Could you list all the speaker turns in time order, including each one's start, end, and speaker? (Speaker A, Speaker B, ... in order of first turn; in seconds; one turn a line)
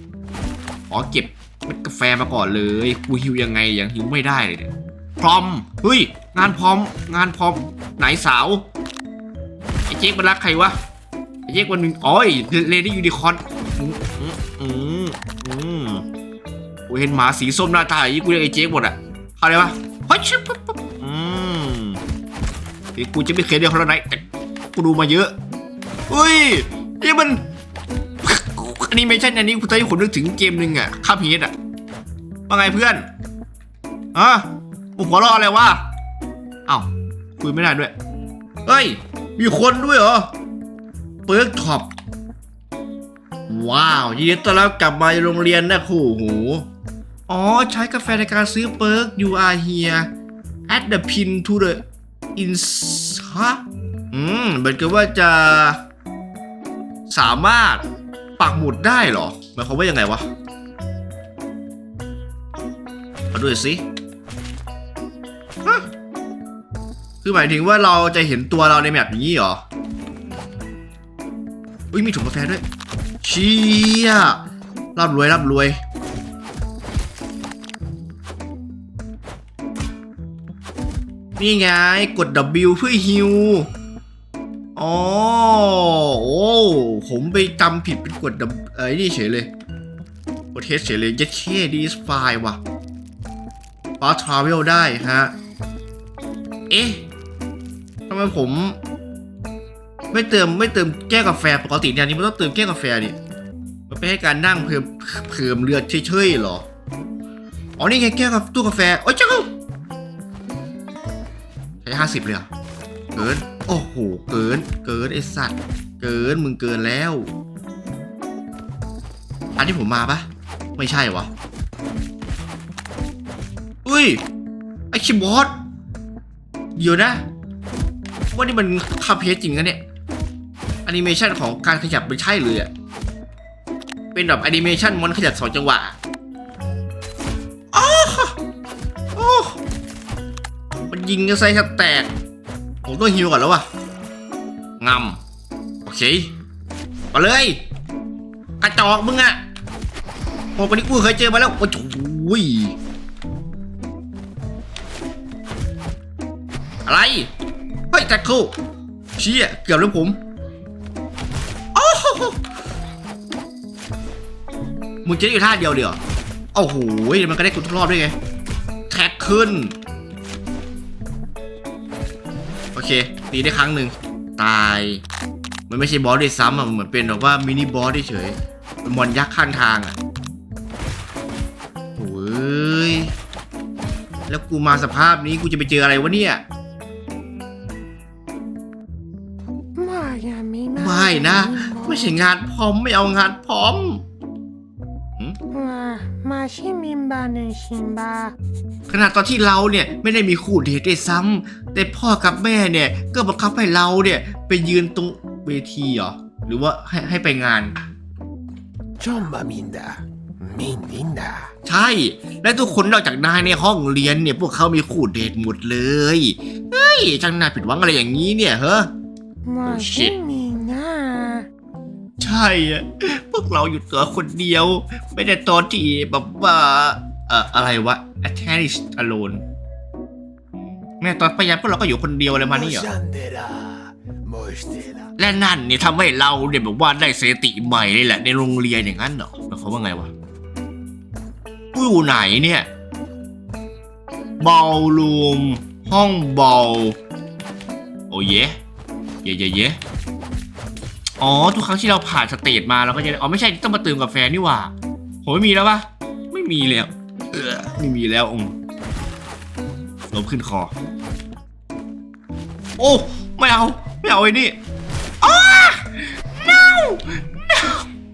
Speaker A: 0.9-8.6
Speaker A: 9.9-10.8
Speaker A: 11.5-16.0
Speaker A: 16.9-22.0
Speaker A: 22.9-25.3
Speaker A: 26.1-27.4
Speaker A: 28.2-31.5
Speaker A: 32.5-33.1
Speaker A: 34.1-35.8
Speaker A: 36.7-37.9
Speaker A: 38.6-40.3
Speaker A: 41.2-41.9
Speaker A: 43.5-46.7
Speaker A: 47.3-50.1
Speaker A: 50.7-51.8
Speaker A: 52.4-53.6
Speaker A: 54.1-55.8
Speaker A: 57.1-57.8
Speaker A: 58.4-60.2
Speaker A: 63.3-63.8
Speaker A: 67.2-69.6
Speaker A: 71.9-72.6
Speaker A: 73.2-74.4
Speaker A: 75.0-75.8
Speaker A: 81.4-83.7
Speaker A: 84.8-89.5
Speaker A: 90.5-92.6
Speaker A: 94.0-95.3
Speaker A: 96.7-97.0
Speaker A: 98.1-98.8
Speaker A: 100.1-103.2
Speaker A: 103.9-106.6
Speaker A: 107.8-109.5
Speaker A: 111.8-112.5
Speaker A: 113.1-117.3
Speaker A: 119.5-121.3
Speaker A: 123.8-124.2
Speaker A: 124.9-125.5
Speaker A: 126.8-127.2
Speaker A: 128.3-129.8
Speaker A: 130.8-132.7
Speaker A: 134.1-135.9
Speaker A: 137.7-138.4
Speaker A: 139.2-139.6
Speaker A: 140.9-142.1
Speaker A: 142.8-143.7
Speaker A: 144.8-145.2
Speaker A: 145.8-146.3
Speaker A: 147.1-147.6
Speaker A: 148.6-149.4
Speaker A: 150.6-152.7
Speaker A: 156.8-157.3
Speaker A: 157.9-158.5
Speaker A: 159.2-160.2
Speaker A: 161.7-162.4
Speaker A: 165.0-166.0
Speaker A: 166.5-168.2
Speaker A: 168.9-169.7
Speaker A: 172.7-175.0
Speaker A: 175.7-180.0
Speaker A: 182.0-183.1
Speaker A: 184.3-186.4
Speaker B: 189.8-192.2
Speaker A: 190.8-194.0
Speaker B: 195.5-198.3
Speaker A: 198.9-207.7
Speaker C: 209.0-211.5
Speaker A: 211.7-218.9
Speaker B: 219.4-221.5
Speaker A: 219.6-220.1
Speaker A: 222.2-229.4
Speaker A: 230.6-232.9
Speaker C: 232.3-235.1
Speaker A: 235.2-240.1
Speaker A: 241.7-242.7
Speaker A: 244.4-247.0
Speaker A: 248.1-248.6
Speaker A: 249.2-249.8
Speaker A: 251.2-254.7
Speaker A: 255.2-258.5
Speaker A: 260.1-260.7
Speaker A: 262.8-264.6
Speaker A: 265.2-267.9